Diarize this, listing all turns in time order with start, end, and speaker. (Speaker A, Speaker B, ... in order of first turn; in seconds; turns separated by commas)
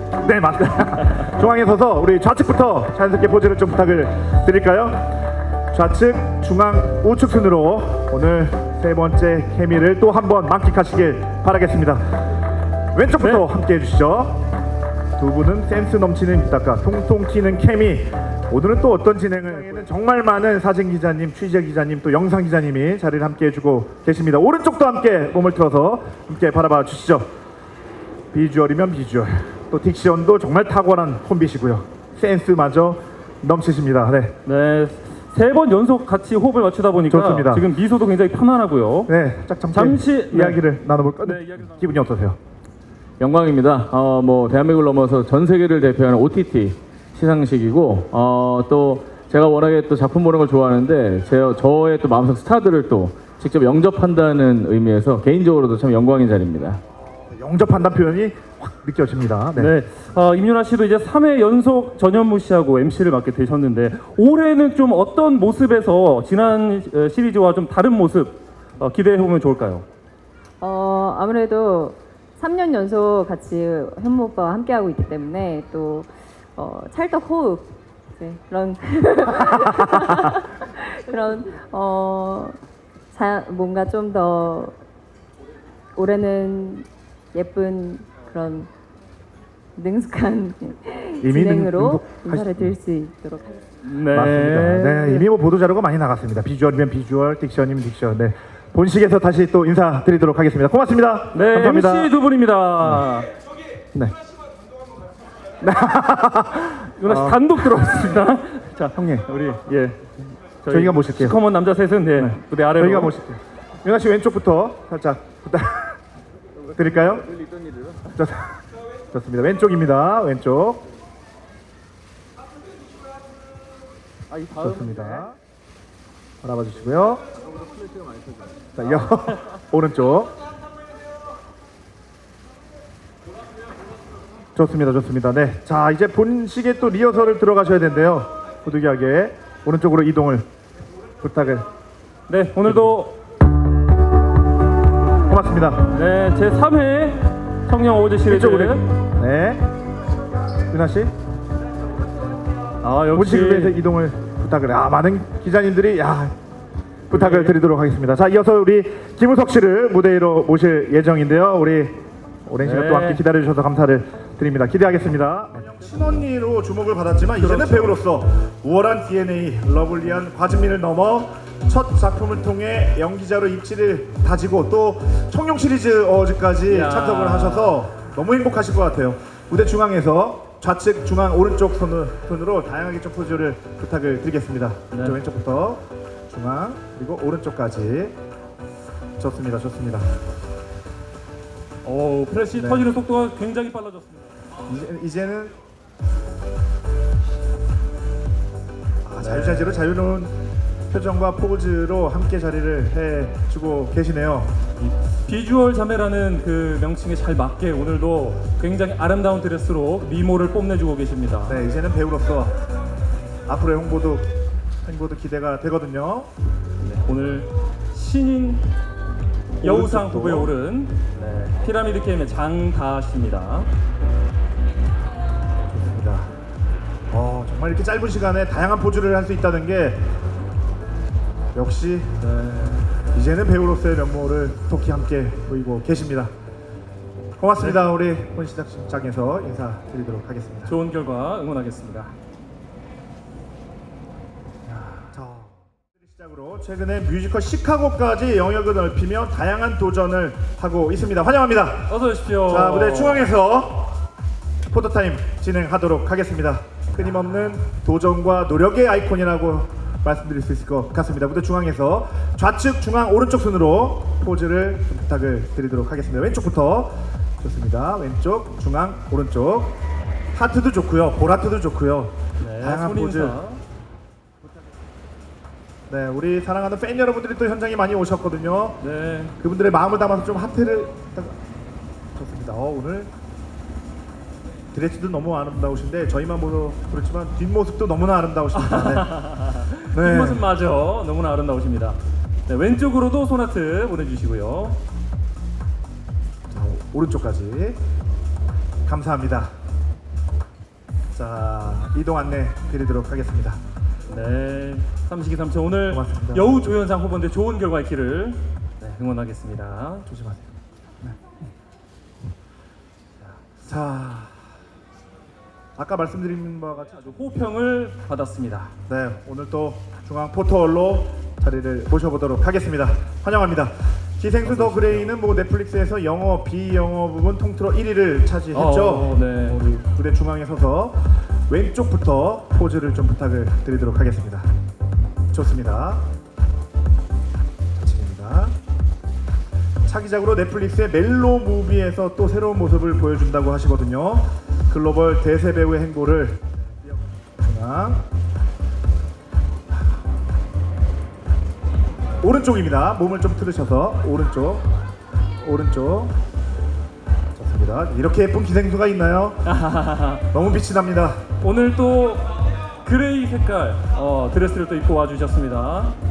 Speaker A: 0.2-5.2, Speaker A: 5.7-12.0, Speaker A: 12.9-14.4, Speaker B: 13.2-13.5, Speaker A: 15.2-27.3, Speaker A: 28.3-34.4, Speaker B: 34.4-39.1, Speaker A: 37.1-37.7, Speaker A: 39.1-42.4, Speaker B: 39.7-41.8, Speaker C: 43.2-56.8, Speaker A: 57.3-59.7, Speaker B: 59.5-69.8, Speaker D: 70.6-82.6, Speaker D: 83.1-84.8, Speaker D: 85.9-88.7, Speaker D: 89.8-93.7, Speaker A: 91.2-92.8, Speaker B: 93.8-94.9, Speaker A: 94.1-102.1, Speaker D: 94.9-95.3, Speaker B: 101.3-103.3, Speaker A: 105.6-107.9, Speaker B: 106.7-113.1, Speaker A: 108.9-109.3, Speaker A: 110.7-111.4, Speaker A: 112.2-116.0, Speaker C: 116.7-118.1, Speaker A: 116.8-117.3, Speaker A: 118.2-120.8, Speaker C: 124.3-125.2, Speaker A: 124.6-125.4, Speaker A: 126.4-127.2, Speaker C: 127.5-128.9, Speaker A: 128.8-130.3, Speaker A: 134.5-140.4, Speaker A: 141.2-141.7, Speaker B: 142.3-143.2, Speaker A: 142.6-143.0, Speaker A: 145.3-145.9, Speaker B: 145.9-148.9, Speaker A: 148.2-149.6, Speaker A: 150.7-151.1, Speaker B: 152.8-153.8, Speaker A: 153.1-156.3, Speaker A: 157.1-188.2, Speaker B: 157.1-157.6, Speaker B: 162.6-163.2, Speaker B: 167.3-168.0, Speaker B: 176.7-177.8, Speaker B: 184.9-185.2, Speaker A: 189.2-190.1, Speaker B: 191.8-194.4, Speaker A: 192.5-192.9, Speaker A: 194.7-195.6, Speaker A: 199.0-200.3, Speaker B: 199.2-199.9, Speaker A: 200.9-204.5, Speaker B: 204.8-211.6, Speaker A: 211.5-212.6, Speaker A: 213.5-214.3, Speaker A: 214.8-216.3, Speaker B: 216.8-218.7, Speaker A: 219.6-220.5, Speaker B: 219.6-223.7, Speaker A: 225.7-226.3, Speaker A: 227.1-230.0, Speaker A: 231.5-232.2, Speaker B: 232.2-232.9, Speaker A: 232.9-236.3, Speaker A: 237.4-240.7, Speaker B: 237.6-237.8, Speaker B: 240.7-242.1, Speaker A: 244.7-253.9, Speaker B: 251.9-253.3, Speaker A: 254.7-269.8, Speaker B: 256.9-257.5, Speaker A: 270.3-273.4, Speaker B: 272.4-273.6, Speaker A: 275.9-278.8, Speaker B: 278.8-279.4, Speaker A: 279.4-281.4, Speaker A: 282.1-283.1, Speaker A: 284.7-289.1, Speaker B: 288.5-294.8, Speaker A: 289.9-290.4, Speaker A: 296.5-297.8, Speaker A: 298.9-299.5, Speaker A: 301.1-303.6, Speaker B: 304.1-310.1, Speaker A: 305.9-306.6, Speaker A: 310.1-311.2, Speaker A: 313.6-314.5, Speaker A: 315.8-317.2, Speaker B: 316.8-318.7, Speaker A: 318.9-334.5, Speaker B: 324.4-325.1, Speaker B: 328.5-329.6, Speaker A: 335.3-336.1, Speaker A: 337.8-338.5, Speaker A: 339.9-348.0, Speaker A: 352.2-354.8, Speaker A: 355.4-356.1, Speaker A: 357.4-359.5, Speaker B: 359.4-360.3, Speaker A: 360.3-361.2, Speaker B: 361.4-365.9